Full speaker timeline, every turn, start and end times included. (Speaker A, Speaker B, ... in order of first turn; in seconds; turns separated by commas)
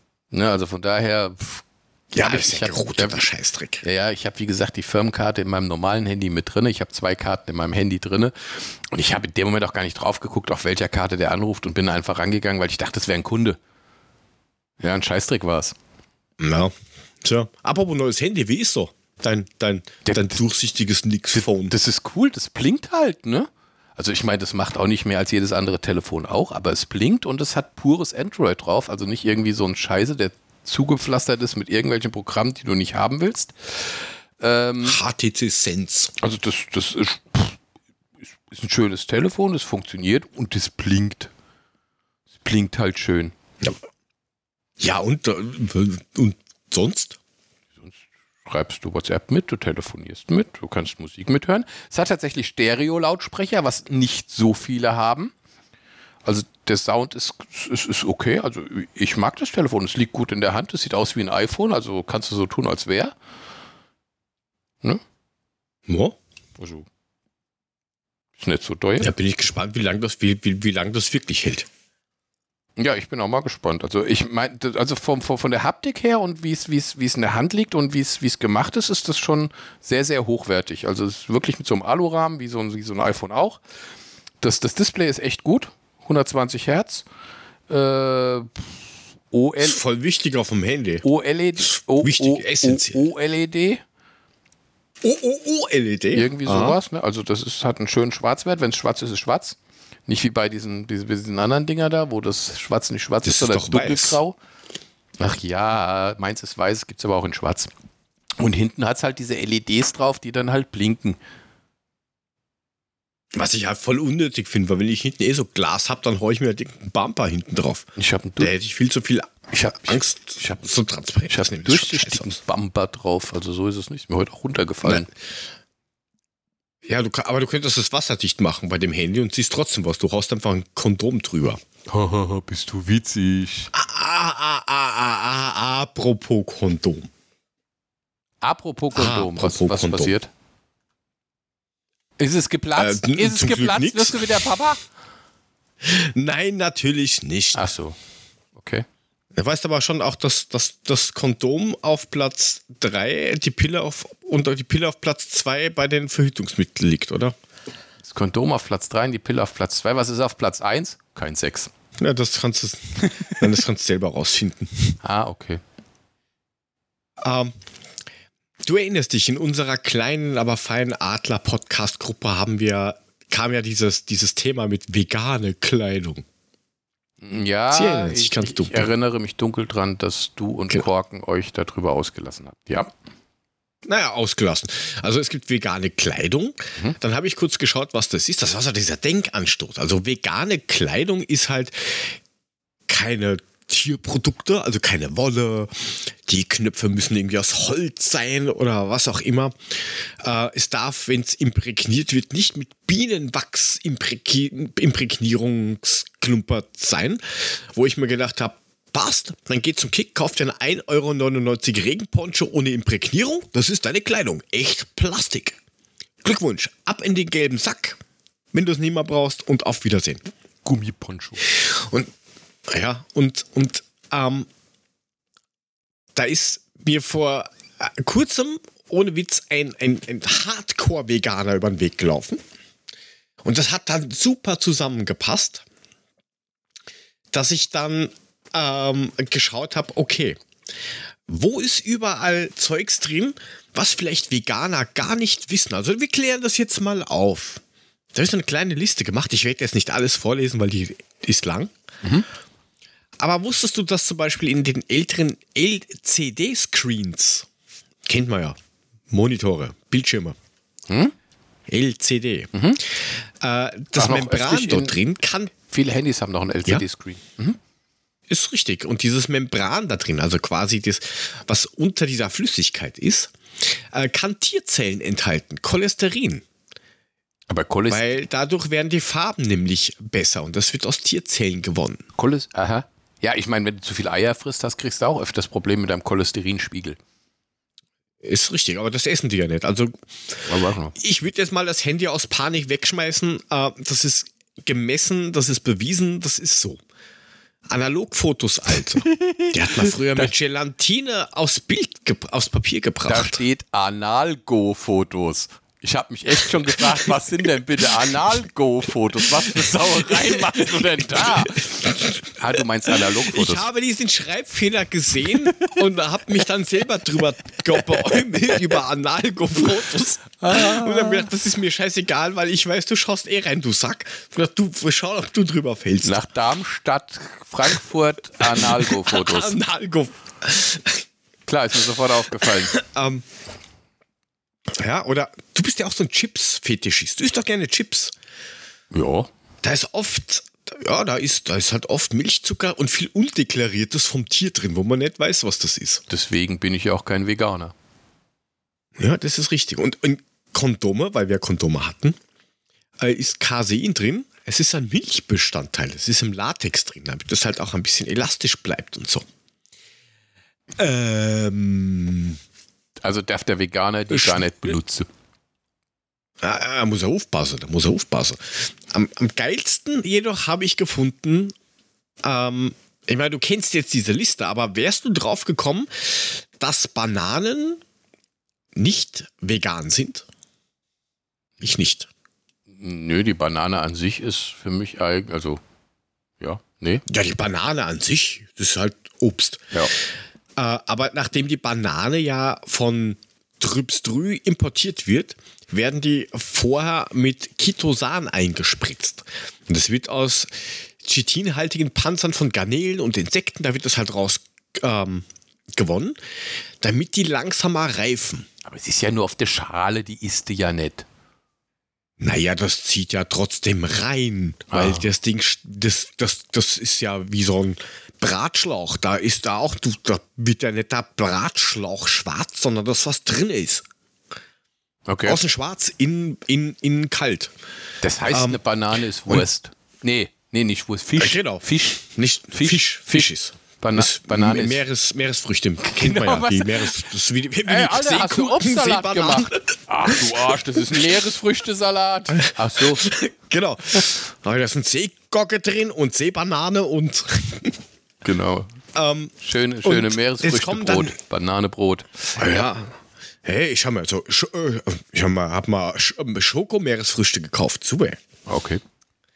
Speaker A: 0.3-3.2, Speaker B: 2.1-3.8, Speaker A: 3.8-13.6, Speaker A: 14.8-15.8, Speaker B: 16.4-21.7, Speaker A: 20.1-20.4, Speaker A: 21.4-35.0, Speaker B: 34.8-36.1, Speaker A: 36.2-37.6, Speaker A: 38.5-41.3, Speaker A: 42.4-43.4, Speaker B: 44.8-47.2, Speaker A: 48.5-55.3, Speaker A: 56.2-63.1, Speaker B: 65.9-66.2, Speaker A: 66.6-66.9, Speaker A: 68.4-69.1, Speaker B: 69.0-71.7, Speaker A: 72.8-83.6, Speaker A: 84.4-87.0, Speaker A: 87.7-88.7, Speaker A: 89.3-89.8, Speaker B: 89.6-91.0, Speaker A: 91.0-93.8, Speaker B: 91.8-93.0, Speaker B: 95.0-96.8, Speaker A: 96.1-104.4, Speaker B: 103.2-104.2, Speaker A: 105.2-107.7, Speaker A: 108.4-111.2, Speaker B: 113.3-117.9, Speaker A: 118.0-118.5, Speaker B: 118.4-122.3, Speaker A: 119.5-120.6, Speaker A: 121.3-125.1, Speaker B: 126.9-131.6, Speaker A: 131.9-133.7, Speaker B: 133.7-137.1, Speaker A: 138.4-140.3, Speaker B: 138.9-140.1, Speaker A: 142.2-144.8, Speaker B: 142.8-144.4, Speaker B: 145.8-147.7, Speaker A: 147.6-148.0, Speaker A: 148.6-148.8, Speaker B: 149.3-157.4, Speaker A: 158.0-161.7, Speaker B: 162.0-164.9, Speaker A: 163.0-163.4, Speaker A: 165.0-165.6, Speaker B: 167.2-167.6, Speaker B: 168.7-176.2, Speaker A: 177.2-182.9, Speaker B: 177.7-178.9, Speaker B: 183.8-192.2, Speaker B: 192.9-215.6, Speaker B: 216.2-218.0, Speaker B: 218.5-220.2, Speaker A: 220.7-221.4, Speaker B: 221.5-222.1, Speaker B: 222.7-224.5, Speaker B: 226.2-232.4, Speaker B: 233.4-235.7, Speaker B: 237.3-240.4, Speaker B: 241.3-247.6, Speaker B: 248.1-251.7, Speaker B: 253.2-257.5, Speaker B: 258.1-258.6, Speaker B: 259.1-260.4, Speaker A: 260.9-261.1, Speaker B: 261.7-265.5, Speaker A: 262.5-262.8, Speaker A: 264.0-265.0, Speaker A: 265.6-267.6, Speaker B: 268.3-276.4, Speaker A: 277.5-278.1, Speaker B: 277.9-282.0, Speaker A: 282.2-287.0, Speaker B: 288.2-296.8, Speaker A: 290.5-291.0, Speaker B: 297.7-303.4, Speaker A: 299.0-300.3, Speaker A: 303.1-313.6, Speaker B: 306.4-307.2, Speaker B: 309.1-326.2, Speaker A: 315.5-315.8, Speaker A: 317.8-318.2, Speaker A: 320.4-321.3, Speaker A: 326.0-329.6, Speaker B: 328.4-331.0, Speaker A: 331.5-332.8, Speaker B: 332.3-333.2, Speaker B: 334.7-338.1, Speaker A: 338.9-339.3, Speaker B: 339.6-346.0, Speaker A: 346.1-347.7, Speaker B: 349.0-352.2, Speaker B: 353.0-359.2, Speaker B: 360.8-362.4, Speaker A: 363.0-365.1, Speaker B: 364.1-364.7, Speaker B: 366.4-371.6, Speaker B: 372.2-377.8, Speaker B: 378.8-380.3, Speaker B: 381.6-382.1, Speaker A: 382.8-385.6, Speaker A: 386.4-387.0, Speaker B: 387.1-389.7, Speaker B: 390.6-406.2, Speaker B: 406.8-408.5, Speaker A: 408.6-411.1, Speaker B: 412.2-423.9, Speaker A: 414.7-415.1, Speaker A: 425.1-425.4, Speaker B: 425.3-427.5, Speaker A: 428.0-434.8, Speaker B: 428.3-428.6, Speaker B: 431.2-441.1, Speaker A: 435.9-437.1, Speaker A: 437.6-443.1, Speaker B: 442.4-447.8, Speaker A: 448.2-448.7, Speaker B: 448.9-451.1, Speaker A: 449.4-452.4, Speaker B: 452.4-458.2, Speaker A: 458.5-458.8